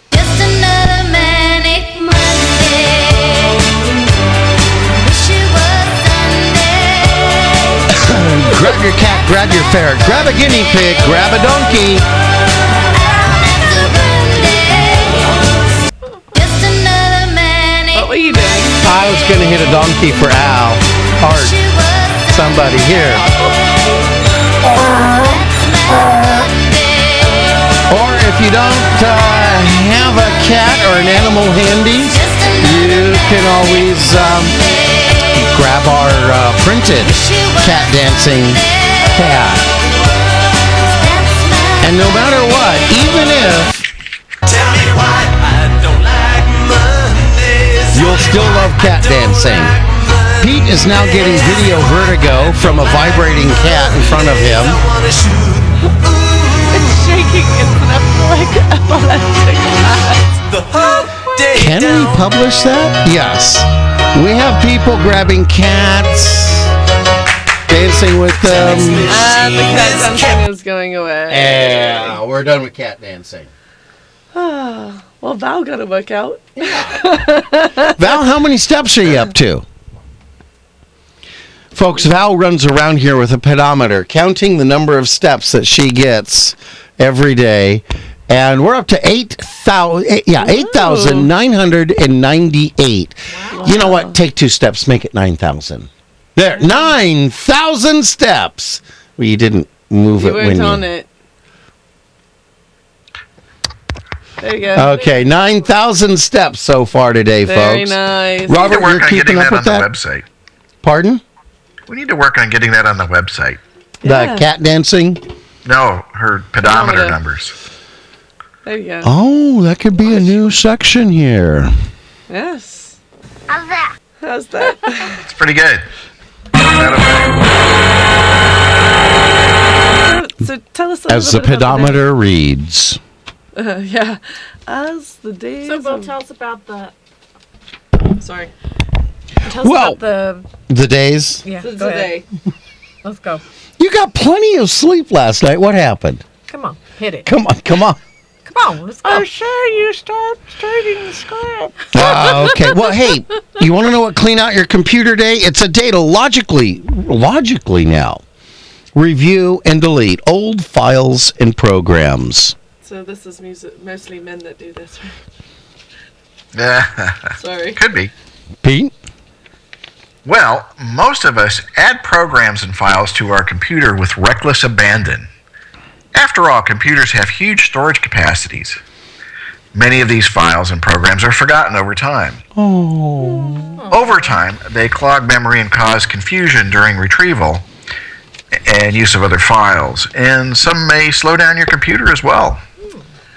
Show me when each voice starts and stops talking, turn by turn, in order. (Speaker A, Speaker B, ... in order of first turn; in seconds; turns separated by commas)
Speaker A: 0.1-4.0, Speaker A: 5.0-7.9, Speaker B: 7.9-12.1, Speaker A: 12.9-15.5, Speaker A: 16.4-18.1, Speaker C: 17.9-18.8, Speaker B: 18.8-21.5, Speaker A: 21.3-27.8, Speaker B: 22.3-23.2, Speaker B: 27.9-34.6, Speaker A: 32.0-35.4, Speaker B: 35.3-39.8, Speaker A: 37.0-39.6, Speaker A: 40.8-42.4, Speaker B: 41.8-43.8, Speaker D: 44.5-50.6, Speaker B: 47.9-49.8, Speaker B: 50.4-54.8, Speaker D: 51.2-51.9, Speaker D: 52.5-55.8, Speaker C: 56.6-61.1, Speaker D: 60.5-62.2, Speaker B: 61.5-66.7, Speaker B: 67.7-69.2, Speaker D: 68.5-70.4, Speaker C: 69.1-72.2, Speaker B: 71.3-73.5, Speaker C: 74.3-78.2, Speaker B: 76.6-77.0, Speaker B: 78.0-79.7, Speaker B: 81.7-100.8, Speaker C: 90.4-91.3, Speaker E: 93.3-93.7, Speaker C: 93.5-94.2, Speaker C: 100.2-101.1, Speaker C: 104.4-105.2, Speaker B: 104.7-109.9, Speaker C: 107.5-108.8, Speaker F: 108.6-110.2, Speaker B: 110.8-111.2, Speaker F: 111.9-113.6, Speaker C: 114.0-114.5, Speaker B: 114.0-115.2, Speaker F: 115.7-117.5, Speaker C: 116.6-117.2, Speaker C: 118.7-119.1, Speaker B: 119.0-121.7, Speaker C: 122.3-123.0, Speaker C: 124.2-125.2, Speaker F: 125.2-125.9, Speaker F: 126.6-127.6, Speaker C: 130.0-132.1, Speaker B: 131.1-133.0, Speaker C: 133.6-136.1, Speaker E: 135.6-136.9, Speaker C: 138.2-138.5, Speaker E: 139.5-140.5, Speaker B: 139.5-140.0, Speaker B: 140.7-141.4, Speaker E: 141.4-142.2, Speaker C: 141.6-142.3, Speaker E: 143.0-143.4, Speaker B: 143.8-146.2, Speaker E: 146.5-147.3, Speaker B: 147.3-148.0, Speaker E: 148.5-149.3, Speaker D: 149.8-151.1, Speaker B: 151.9-158.2, Speaker E: 152.0-152.7, Speaker B: 158.9-162.6, Speaker C: 162.8-165.2, Speaker F: 166.5-168.1, Speaker C: 167.4-167.8, Speaker B: 168.6-168.9, Speaker F: 170.2-175.3, Speaker F: 176.1-178.8, Speaker F: 179.7-182.4, Speaker B: 182.6-183.8, Speaker C: 183.4-183.7, Speaker E: 183.8-184.4, Speaker F: 183.9-187.7, Speaker F: 188.6-192.6